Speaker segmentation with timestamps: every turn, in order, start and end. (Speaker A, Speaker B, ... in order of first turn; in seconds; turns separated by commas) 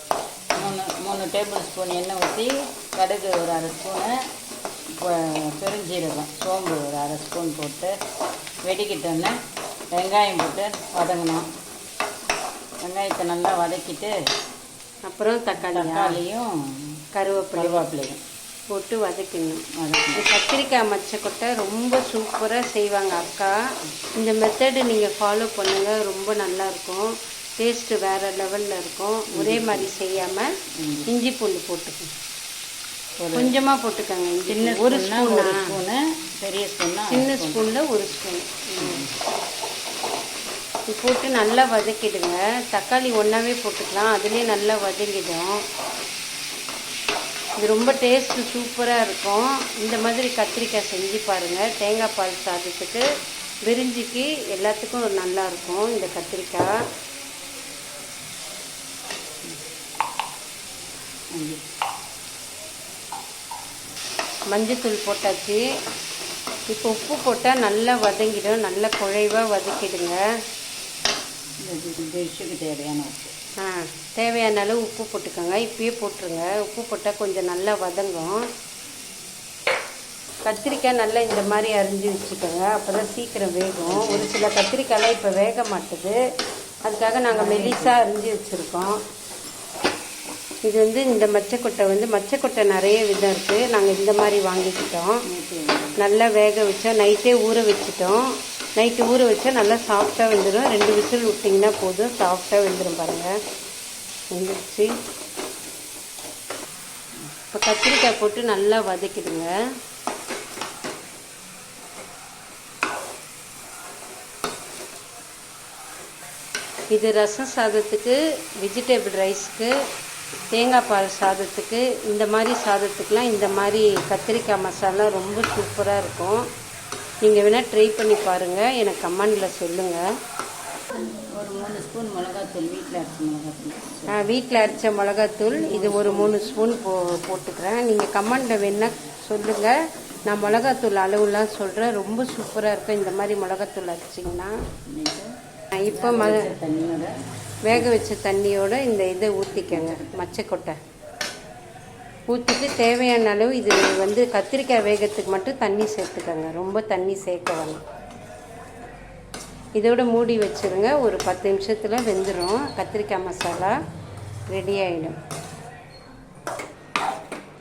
Speaker A: 0.5-4.1, Speaker A: 4.9-7.9, Speaker A: 8.6-9.3, Speaker A: 9.9-11.4, Speaker A: 12.8-14.1, Speaker B: 15.1-16.2, Speaker A: 15.6-17.0, Speaker B: 17.1-17.8, Speaker A: 17.5-18.2, Speaker B: 18.7-19.6, Speaker A: 19.7-20.2, Speaker B: 20.1-23.6, Speaker B: 24.1-30.5, Speaker A: 29.3-29.9, Speaker A: 30.8-31.1, Speaker B: 31.1-32.1, Speaker A: 33.2-33.5, Speaker B: 33.3-35.7, Speaker A: 34.5-37.6, Speaker B: 37.1-39.0, Speaker A: 38.8-39.1, Speaker B: 40.9-45.6, Speaker B: 47.6-53.0, Speaker B: 53.6-56.7, Speaker A: 61.3-61.6, Speaker B: 64.5-65.6, Speaker B: 66.7-70.2, Speaker A: 71.6-73.3, Speaker B: 73.6-78.4, Speaker B: 80.5-86.2, Speaker A: 83.8-84.3, Speaker B: 86.8-89.0, Speaker A: 87.3-87.9, Speaker B: 90.6-95.2, Speaker A: 95.3-96.0, Speaker B: 96.0-103.3, Speaker B: 104.3-104.9, Speaker B: 107.5-109.5, Speaker B: 116.9-119.7, Speaker B: 120.5-126.4, Speaker B: 127.2-130.0, Speaker A: 131.3-134.2, Speaker B: 134.1-139.7, Speaker A: 135.7-136.4, Speaker B: 140.2-144.5, Speaker A: 144.9-145.3, Speaker B: 145.7-146.5, Speaker A: 145.9-147.1, Speaker B: 147.6-150.8, Speaker A: 147.7-148.0, Speaker A: 149.6-150.2, Speaker B: 152.3-157.8, Speaker B: 159.8-163.7, Speaker B: 164.5-165.2